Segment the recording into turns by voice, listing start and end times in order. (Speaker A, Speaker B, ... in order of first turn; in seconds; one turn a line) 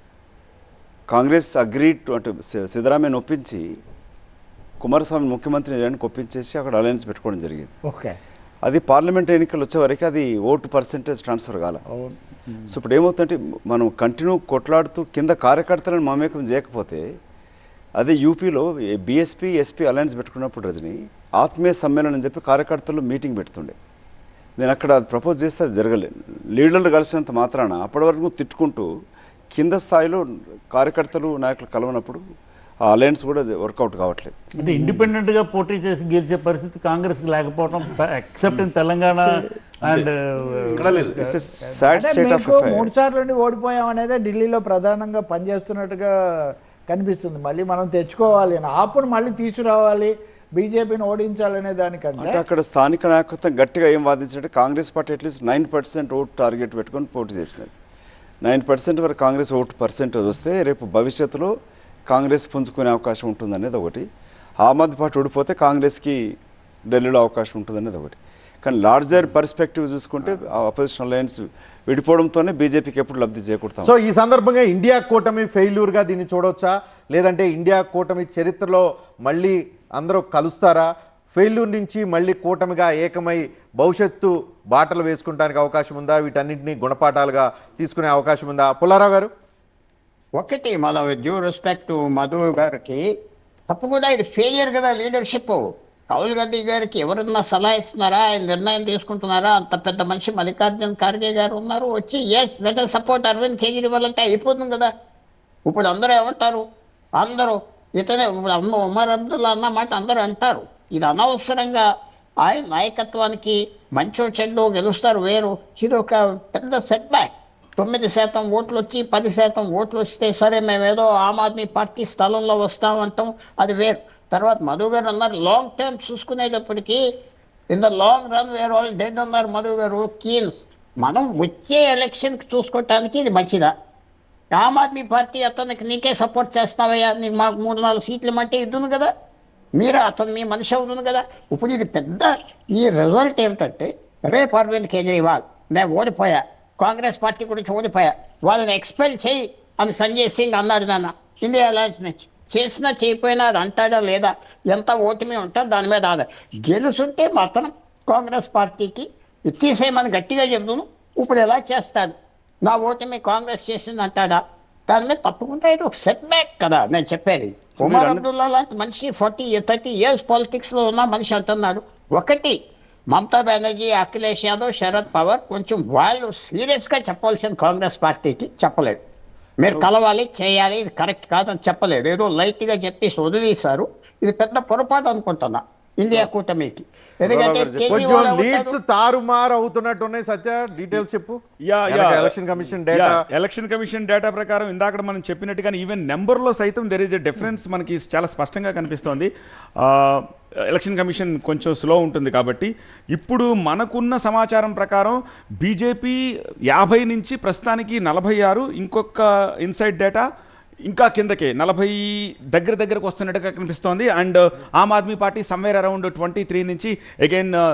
Speaker A: 1.1-3.6
Speaker A: 4.8-7.7
Speaker B: 7.8-8.1
Speaker A: 8.6-11.8
Speaker A: 12.7-17.0
Speaker A: 18.0-23.8
Speaker A: 24.6-28.9
Speaker A: 29.5-32.2
Speaker A: 32.9-34.5
Speaker C: 34.6-41.4
Speaker A: 39.2-40.1
Speaker A: 40.7-42.9
Speaker B: 41.9-52.4
Speaker A: 52.2-57.7
Speaker A: 58.4-61.5
Speaker A: 62.1-64.0
Speaker A: 64.6-66.2
Speaker A: 66.9-73.9
Speaker D: 73.8-89.3
Speaker E: 90.4-93.0
Speaker E: 93.7-95.6
Speaker E: 96.1-104.9
Speaker E: 105.7-106.6
Speaker E: 107.2-111.8
Speaker E: 112.4-127.0
Speaker E: 127.7-133.7
Speaker E: 134.5-139.1
Speaker E: 139.8-172.6
Speaker F: 167.8-168.2
Speaker E: 173.1-179.0
Speaker E: 179.6-188.7
Speaker A: 187.2-188.2
Speaker D: 187.9-193.2
Speaker F: 191.7-192.3
Speaker F: 192.9-199.3
Speaker F: 199.8-206.2
Speaker F: 206.7-210.2
Speaker F: 210.9-217.5